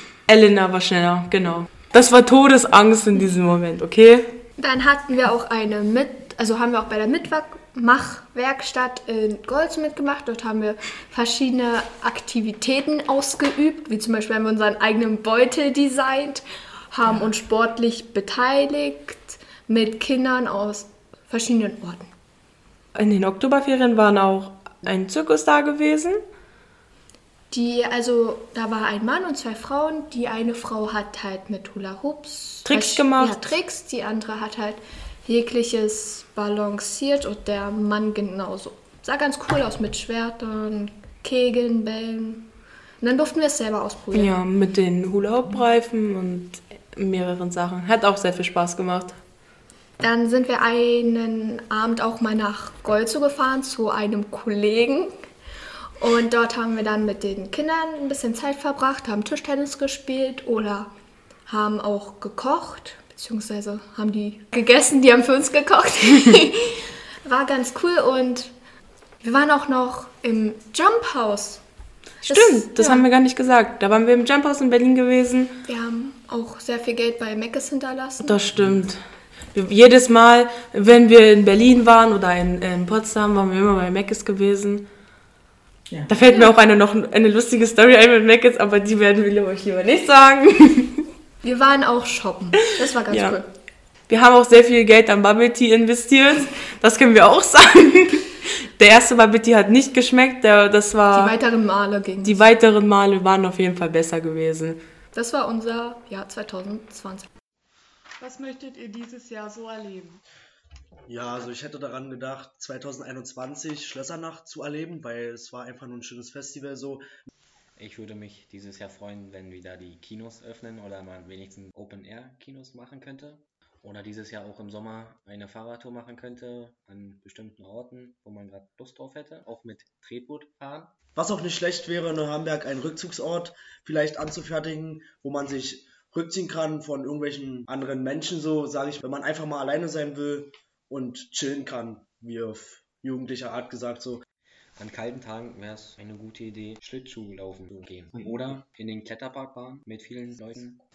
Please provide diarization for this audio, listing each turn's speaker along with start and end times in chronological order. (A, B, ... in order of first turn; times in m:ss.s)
0:00.3-0:04.2 A
0:04.6-0:22.1 B
0:22.9-0:26.2 A
0:27.5-0:42.5 B
0:32.6-0:33.4 A
0:43.0-0:44.4 B
0:44.1-0:49.2 A
0:50.0-0:55.1 B
0:56.0-1:00.9 B
1:01.5-1:08.5 B
1:09.2-1:11.6 B
1:12.2-1:15.5 A
1:12.3-1:13.0 B
1:15.6-1:18.5 B
1:18.2-1:19.0 A
1:19.5-1:24.8 A
1:26.1-1:31.0 A
1:31.4-1:33.5 B
1:33.1-1:33.4 A
1:34.1-1:41.3 A
1:41.1-1:42.4 B
1:42.2-1:44.8 A
1:45.1-1:47.3 B
1:48.2-1:50.2 C
1:51.1-1:57.0 D
1:57.8-2:10.9 E
2:11.2-2:24.2 D
2:24.8-2:30.8 E